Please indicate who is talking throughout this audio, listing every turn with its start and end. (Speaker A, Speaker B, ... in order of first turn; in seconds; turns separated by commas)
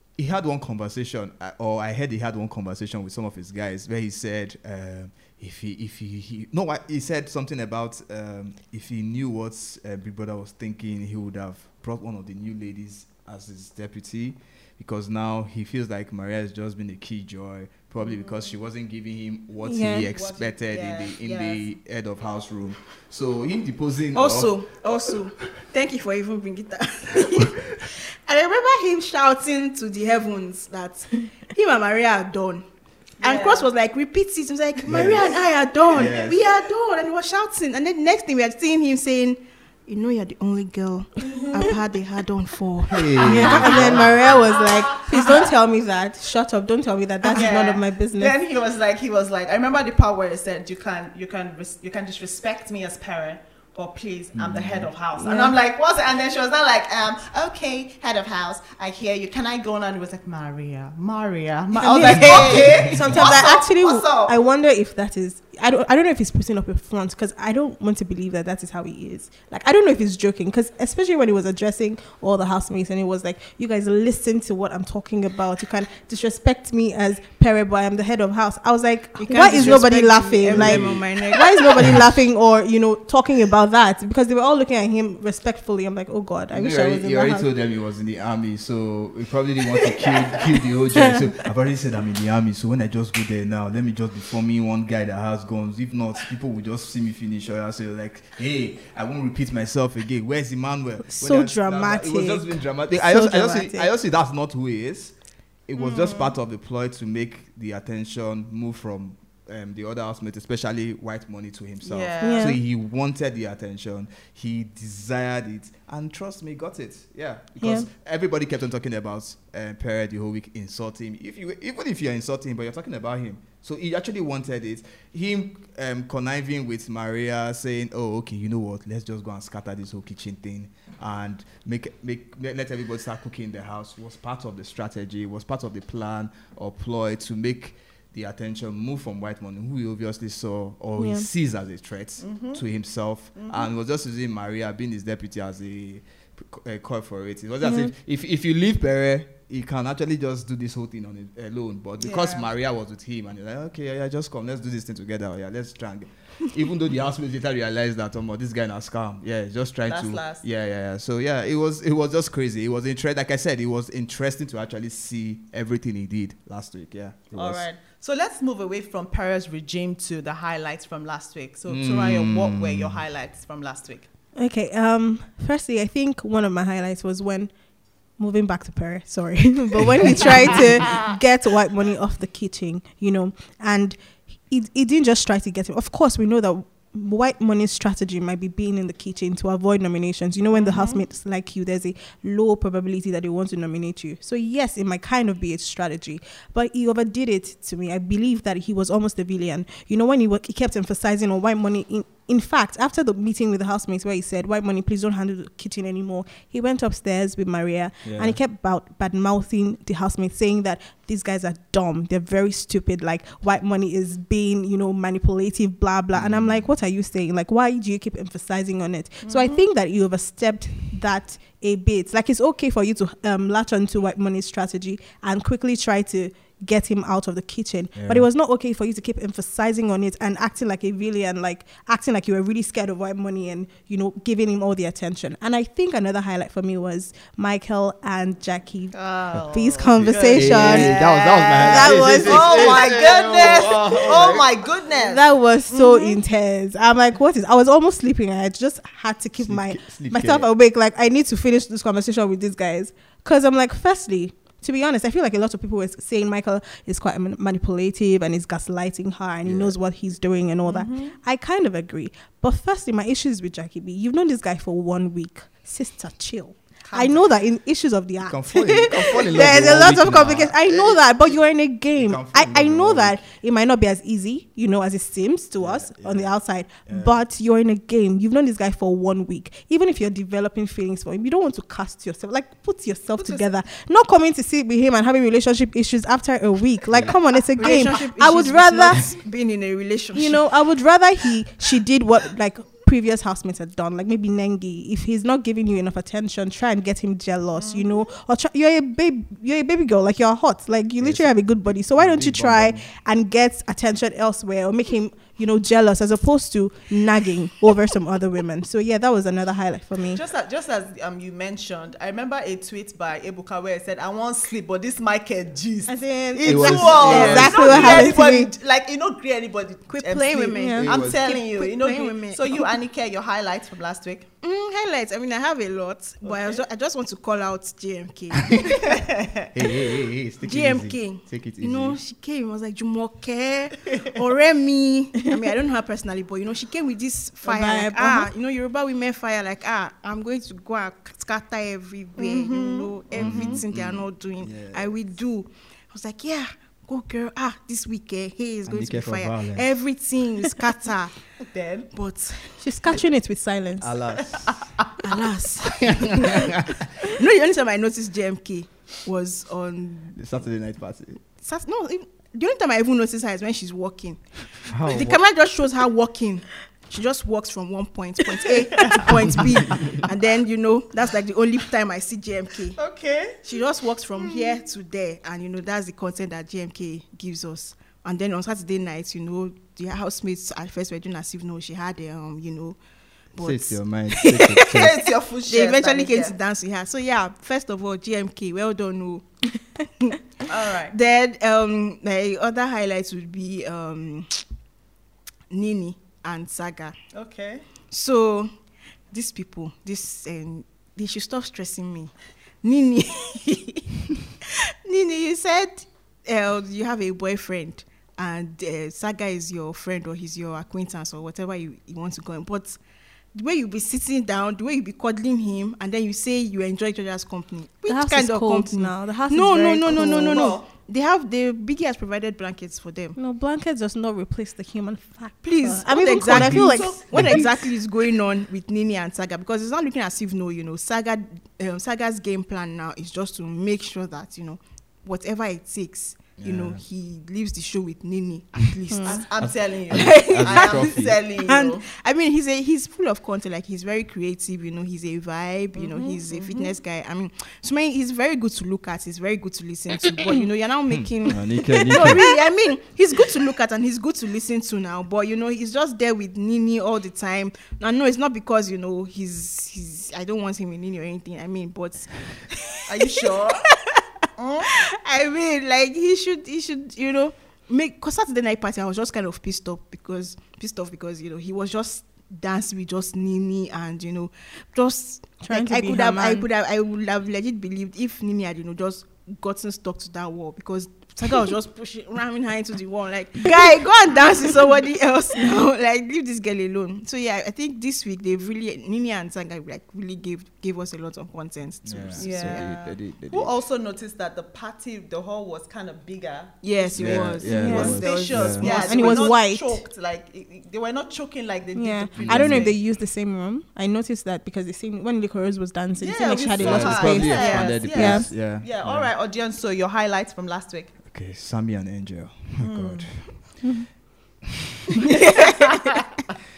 Speaker A: 0.2-24.7, Speaker B: 18.0-18.5, Speaker C: 19.6-20.1, Speaker B: 20.1-21.7, Speaker D: 24.1-32.6, Speaker B: 33.2-33.7, Speaker D: 33.2-43.7, Speaker A: 34.9-35.3, Speaker A: 35.9-36.4, Speaker A: 42.9-44.4, Speaker C: 43.2-48.3, Speaker B: 43.7-45.5, Speaker B: 47.2-64.3, Speaker A: 54.4-54.9, Speaker C: 55.2-55.5, Speaker C: 61.7-87.5, Speaker A: 62.1-63.4, Speaker D: 79.2-82.0, Speaker A: 79.5-79.8, Speaker A: 80.5-81.0, Speaker A: 86.5-105.2, Speaker C: 101.1-103.9, Speaker A: 105.7-167.7, Speaker B: 105.8-106.4, Speaker B: 111.8-112.6, Speaker C: 112.2-112.6, Speaker C: 117.6-117.9, Speaker C: 141.0-141.3, Speaker B: 142.2-142.6, Speaker B: 143.3-143.7, Speaker C: 147.6-147.9, Speaker B: 152.0-152.5, Speaker B: 159.9-160.4, Speaker B: 167.3-174.1, Speaker A: 171.7-173.0, Speaker C: 174.4-177.5, Speaker C: 178.2-243.3, Speaker B: 190.5-191.0, Speaker A: 208.0-208.4, Speaker A: 216.1-216.8, Speaker B: 219.2-219.7, Speaker A: 228.0-228.3, Speaker B: 238.9-246.2, Speaker A: 240.0-244.5, Speaker C: 244.9-289.1, Speaker A: 249.4-250.5, Speaker A: 259.4-259.8, Speaker B: 260.6-261.2, Speaker B: 266.8-267.2, Speaker A: 268.2-271.4, Speaker A: 272.0-273.2, Speaker A: 275.6-276.3, Speaker A: 276.9-277.2, Speaker A: 286.9-287.2, Speaker D: 287.6-290.5, Speaker C: 290.1-310.2, Speaker B: 297.6-297.9, Speaker A: 301.0-302.9, Speaker B: 310.1-324.3, Speaker C: 315.9-318.5, Speaker A: 316.4-318.1, Speaker D: 316.9-317.6, Speaker D: 319.9-322.7, Speaker C: 320.6-320.9, Speaker A: 320.8-321.2, Speaker D: 324.4-329.0, Speaker B: 326.2-326.6, Speaker A: 328.5-328.8, Speaker B: 328.8-329.3, Speaker A: 329.5-332.0, Speaker D: 330.4-351.2, Speaker C: 337.4-338.3, Speaker B: 342.2-343.6, Speaker A: 343.2-344.9, Speaker A: 348.7-349.7, Speaker B: 351.4-351.9, Speaker D: 351.9-352.9, Speaker C: 352.6-354.0, Speaker A: 353.8-354.6, Speaker D: 355.0-360.2, Speaker A: 355.8-356.8, Speaker A: 360.1-361.2, Speaker D: 361.4-372.8, Speaker A: 364.7-365.2, Speaker B: 368.8-369.4, Speaker B: 372.8-373.6, Speaker D: 373.4-382.8, Speaker B: 374.2-374.5, Speaker D: 383.3-394.4, Speaker A: 383.4-384.9, Speaker B: 384.5-386.4, Speaker B: 390.5-390.9, Speaker D: 395.5-397.0, Speaker B: 397.1-397.6, Speaker D: 397.9-398.5, Speaker D: 399.1-403.9, Speaker D: 404.5-412.8, Speaker D: 413.3-423.2, Speaker C: 417.9-420.6, Speaker B: 419.9-420.7, Speaker C: 423.2-427.1, Speaker D: 425.4-439.2, Speaker A: 426.3-427.5, Speaker B: 426.8-427.3, Speaker A: 436.4-436.8, Speaker C: 438.9-439.2, Speaker B: 439.0-441.8, Speaker A: 439.4-441.2, Speaker D: 439.9-464.0, Speaker B: 445.8-446.7, Speaker A: 450.9-452.3, Speaker C: 451.8-452.2, Speaker B: 462.9-463.7, Speaker B: 464.4-464.7, Speaker D: 464.7-492.7, Speaker C: 475.4-476.5, Speaker A: 491.8-493.6, Speaker B: 492.2-502.8, Speaker D: 496.6-499.3, Speaker A: 497.0-498.7, Speaker C: 497.5-499.8, Speaker C: 501.8-508.3, Speaker A: 502.1-502.7, Speaker B: 506.0-510.9, Speaker A: 506.6-509.1, Speaker A: 511.1-513.6, Speaker B: 512.6-513.5, Speaker D: 515.1-516.0